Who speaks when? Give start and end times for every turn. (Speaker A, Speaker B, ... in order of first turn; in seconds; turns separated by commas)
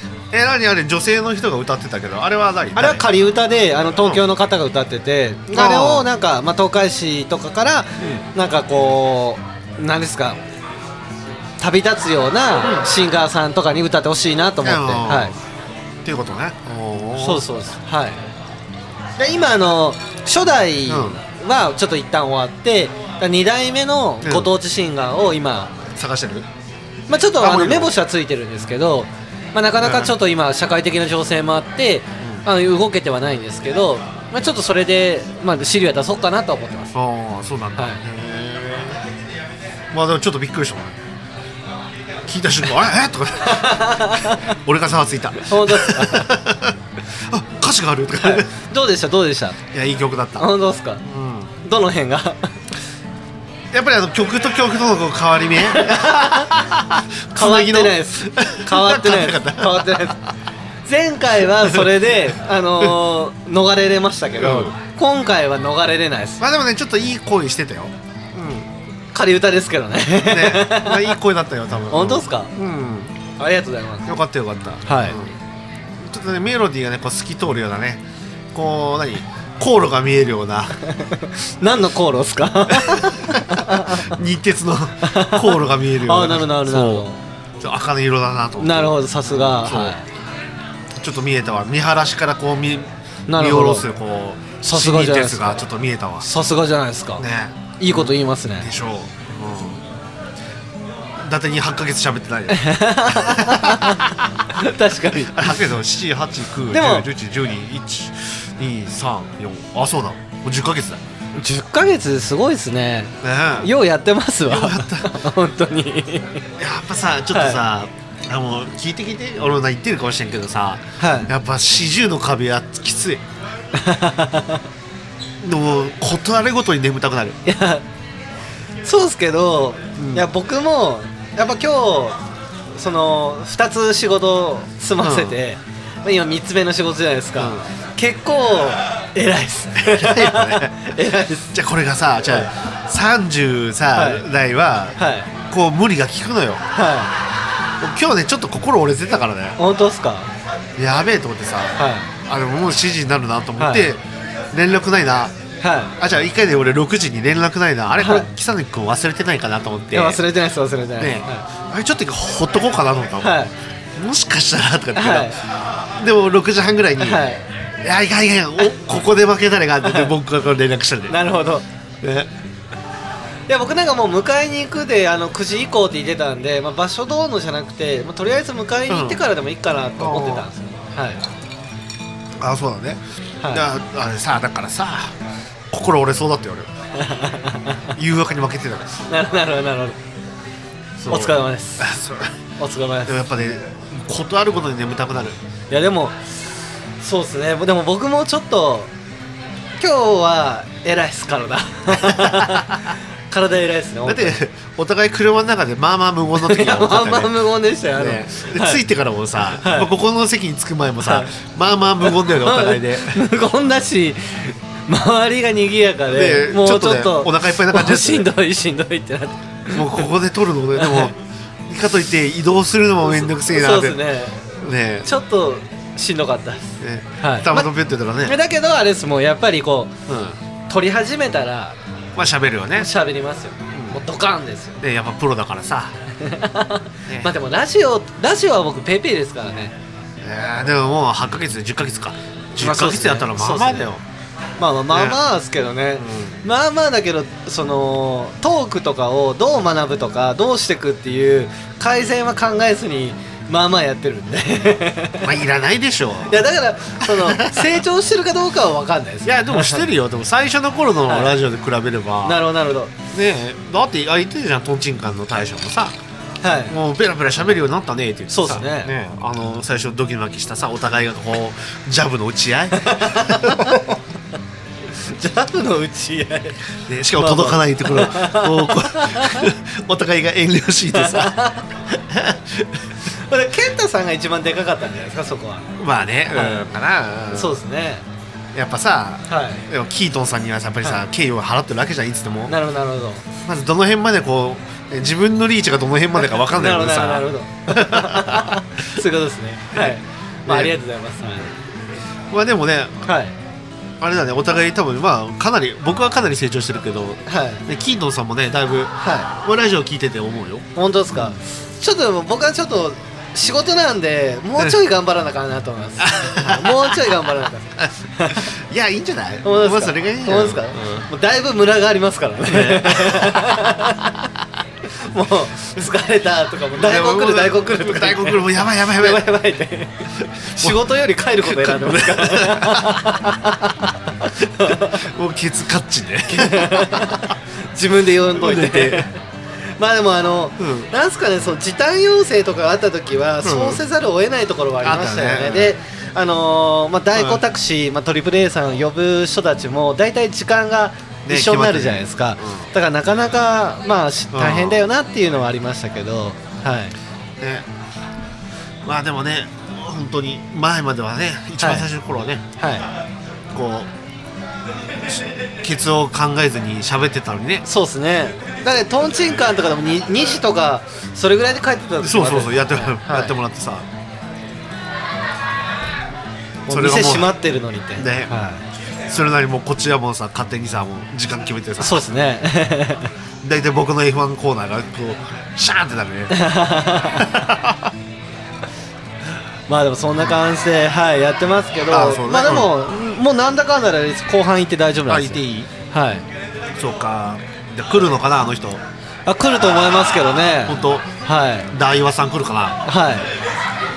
Speaker A: 0.3-3.0, Speaker B: 2.8-10.4, Speaker A: 5.5-6.1, Speaker B: 11.6-15.3, Speaker A: 12.6-12.9, Speaker A: 14.6-15.3, Speaker A: 16.0-17.4, Speaker B: 17.2-18.2, Speaker B: 19.2-25.8, Speaker A: 20.9-21.2, Speaker A: 24.2-24.5, Speaker A: 25.9-26.5, Speaker B: 27.1-36.9, Speaker A: 27.4-27.9, Speaker A: 29.8-30.1, Speaker A: 36.9-39.0, Speaker A: 39.9-41.0, Speaker A: 42.3-48.5, Speaker B: 43.4-44.5, Speaker B: 45.4-46.4, Speaker B: 48.2-49.6, Speaker A: 49.7-50.5, Speaker B: 50.4-51.0, Speaker A: 51.0-51.5, Speaker B: 51.6-52.5, Speaker A: 53.7-60.1, Speaker B: 55.7-56.5, Speaker B: 57.4-60.2, Speaker B: 60.9-66.4, Speaker A: 61.6-62.0, Speaker A: 64.4-64.7, Speaker A: 66.4-68.7, Speaker B: 69.1-71.2, Speaker A: 70.2-73.2, Speaker B: 71.9-72.5, Speaker B: 73.4-74.1, Speaker A: 74.1-75.4, Speaker B: 74.9-75.2, Speaker A: 76.0-78.0, Speaker A: 78.5-80.8, Speaker B: 80.8-84.1, Speaker A: 82.7-87.1, Speaker B: 85.0-87.2, Speaker A: 87.6-90.0, Speaker B: 88.6-90.0, Speaker A: 91.0-96.3, Speaker B: 93.3-93.9, Speaker B: 94.6-95.6, Speaker B: 96.2-97.2, Speaker A: 97.2-99.8, Speaker B: 97.8-98.7, Speaker A: 101.2-104.4, Speaker B: 102.5-105.5, Speaker A: 105.3-111.0, Speaker B: 106.7-107.1, Speaker B: 111.4-116.4, Speaker A: 113.2-113.7, Speaker A: 114.5-115.1, Speaker A: 116.6-123.2, Speaker B: 117.3-117.6, Speaker B: 121.0-121.3, Speaker B: 123.8-124.6, Speaker A: 125.4-127.4, Speaker B: 127.5-127.8, Speaker B: 128.8-132.2, Speaker A: 130.0-130.3, Speaker B: 132.7-141.5, Speaker A: 135.0-135.4, Speaker A: 137.4-137.6, Speaker A: 139.8-140.9, Speaker A: 141.5-146.6, Speaker B: 143.9-144.2, Speaker B: 145.0-145.3, Speaker B: 146.7-147.1, Speaker A: 147.8-149.6, Speaker B: 149.6-150.3, Speaker A: 150.8-155.3, Speaker B: 151.8-152.1, Speaker B: 153.6-153.9, Speaker B: 155.6-155.9, Speaker A: 156.0-160.2, Speaker B: 158.0-158.3, Speaker B: 159.9-161.4, Speaker A: 161.0-163.4, Speaker B: 163.2-163.5, Speaker A: 164.0-165.4, Speaker B: 164.9-165.4, Speaker A: 166.0-167.3, Speaker B: 167.0-167.4, Speaker A: 167.8-171.2, Speaker B: 169.8-170.1, Speaker B: 171.1-171.7, Speaker A: 172.0-172.3, Speaker B: 173.5-181.2, Speaker A: 178.9-179.2, Speaker A: 180.0-180.5, Speaker A: 182.4-185.1, Speaker A: 185.7-186.7, Speaker B: 187.0-187.8, Speaker A: 188.0-189.0, Speaker B: 189.1-190.0, Speaker A: 191.0-192.3, Speaker B: 191.1-191.9, Speaker B: 192.6-193.2, Speaker A: 193.1-195.4, Speaker B: 195.7-196.2, Speaker B: 197.0-198.9, Speaker B: 199.8-204.4, Speaker A: 201.9-202.7, Speaker A: 204.1-207.3, Speaker B: 206.4-208.8, Speaker A: 208.0-213.2, Speaker B: 209.6-209.9, Speaker B: 211.0-211.3, Speaker B: 212.1-220.1, Speaker A: 216.1-218.3, Speaker A: 219.7-221.2, Speaker B: 220.8-221.1, Speaker A: 221.7-224.0, Speaker B: 223.1-224.5, Speaker A: 224.6-225.1, Speaker B: 225.0-227.7, Speaker A: 226.8-228.4, Speaker B: 228.2-229.9, Speaker A: 230.1-230.4, Speaker B: 230.7-231.8, Speaker A: 232.2-232.9, Speaker B: 232.8-234.8, Speaker A: 233.7-234.0, Speaker A: 234.8-235.9, Speaker B: 236.2-239.8, Speaker A: 240.2-244.0, Speaker B: 242.6-243.9, Speaker B: 244.6-255.3, Speaker A: 244.9-245.2, Speaker A: 246.0-246.4, Speaker A: 255.2-256.4, Speaker B: 256.3-259.8, Speaker A: 257.0-257.8, Speaker A: 259.2-262.4, Speaker B: 261.1-261.4, Speaker B: 262.2-262.9, Speaker A: 263.1-265.9, Speaker B: 266.4-266.7, Speaker A: 266.7-273.8, Speaker B: 268.3-268.9, Speaker B: 272.8-273.8, Speaker B: 275.0-276.6, Speaker A: 276.9-282.8, Speaker B: 277.2-279.5, Speaker B: 280.9-281.7, Speaker B: 283.1-285.7, Speaker A: 285.8-287.6, Speaker B: 286.3-286.6, Speaker B: 287.3-288.0, Speaker A: 288.5-292.6, Speaker B: 289.3-289.7, Speaker B: 292.5-293.2, Speaker A: 293.4-298.6, Speaker B: 296.3-301.5, Speaker A: 299.7-300.7, Speaker A: 302.3-303.1, Speaker B: 303.1-303.3, Speaker A: 304.0-311.4, Speaker B: 307.3-307.6, Speaker B: 309.0-309.3, Speaker B: 310.8-318.5, Speaker A: 316.0-317.0, Speaker A: 317.8-321.0, Speaker B: 319.4-324.1, Speaker A: 322.4-323.6, Speaker B: 325.0-335.0, Speaker A: 326.8-329.3, Speaker A: 330.2-330.8, Speaker A: 331.4-333.4, Speaker A: 334.6-337.3, Speaker B: 336.3-339.2, Speaker A: 338.3-339.1, Speaker B: 339.8-356.9, Speaker A: 340.6-340.9, Speaker A: 343.4-343.8, Speaker A: 344.8-345.8, Speaker A: 347.1-347.4, Speaker A: 351.3-352.7, Speaker A: 354.3-354.8, Speaker A: 357.4-357.7, Speaker A: 358.8-362.4, Speaker B: 361.6-361.9, Speaker B: 362.6-362.9, Speaker A: 363.5-363.9, Speaker A: 365.1-367.6, Speaker B: 367.7-373.3, Speaker A: 372.0-373.9, Speaker B: 376.7-378.6, Speaker A: 376.7-377.4, Speaker A: 378.0-378.3, Speaker A: 379.1-382.1, Speaker B: 381.8-383.1, Speaker A: 383.4-386.5, Speaker B: 386.3-387.4, Speaker A: 387.1-387.9, Speaker B: 389.7-396.2, Speaker A: 391.9-392.7, Speaker A: 395.1-395.7, Speaker A: 396.8-398.8, Speaker B: 399.3-401.7, Speaker A: 400.6-401.1, Speaker A: 401.7-402.8, Speaker B: 402.9-403.3